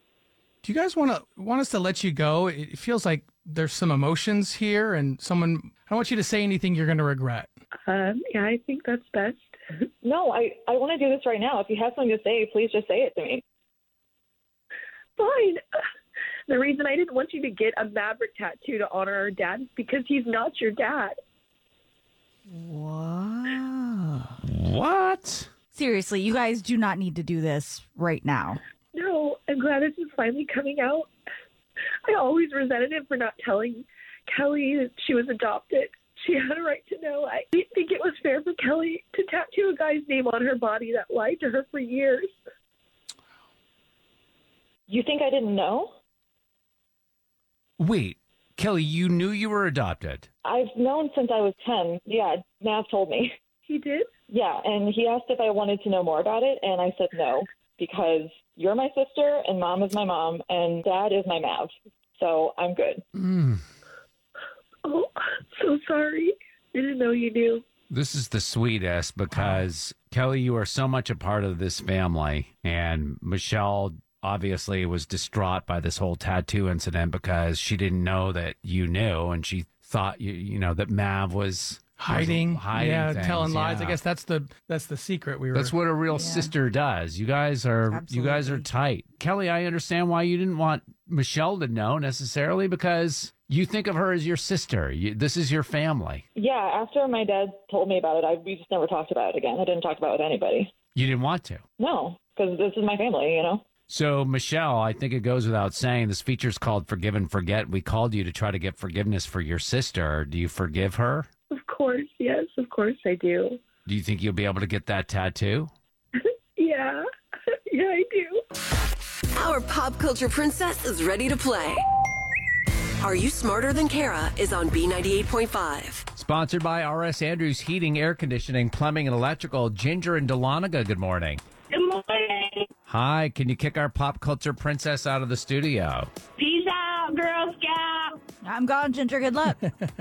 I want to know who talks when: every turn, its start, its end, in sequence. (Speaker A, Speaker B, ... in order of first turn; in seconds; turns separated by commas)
Speaker A: 0.6-7.5, Speaker B: 7.9-9.6, Speaker C: 10.0-13.4, Speaker B: 15.2-15.6, Speaker B: 16.5-21.2, Speaker D: 22.5-24.4, Speaker E: 24.4-25.5, Speaker D: 25.7-28.6, Speaker B: 28.9-31.1, Speaker B: 32.0-42.4, Speaker C: 44.9-45.9, Speaker E: 47.8-50.3, Speaker C: 50.4-53.3, Speaker B: 53.7-54.1, Speaker C: 54.3-63.0, Speaker E: 63.2-63.6, Speaker B: 64.8-67.6, Speaker E: 67.9-84.0, Speaker A: 82.0-85.7, Speaker E: 85.5-96.2, Speaker D: 86.1-86.5, Speaker D: 87.9-88.7, Speaker C: 96.4-100.7, Speaker E: 101.0-101.6, Speaker C: 101.8-103.6, Speaker E: 103.9-111.3, Speaker B: 111.5-113.6, Speaker E: 113.9-115.7, Speaker B: 116.2-117.1, Speaker B: 117.7-118.4, Speaker F: 119.3-121.9, Speaker F: 123.0-126.1, Speaker E: 126.2-131.4, Speaker G: 131.7-132.7, Speaker E: 132.9-136.1, Speaker G: 136.4-138.2, Speaker D: 138.4-139.7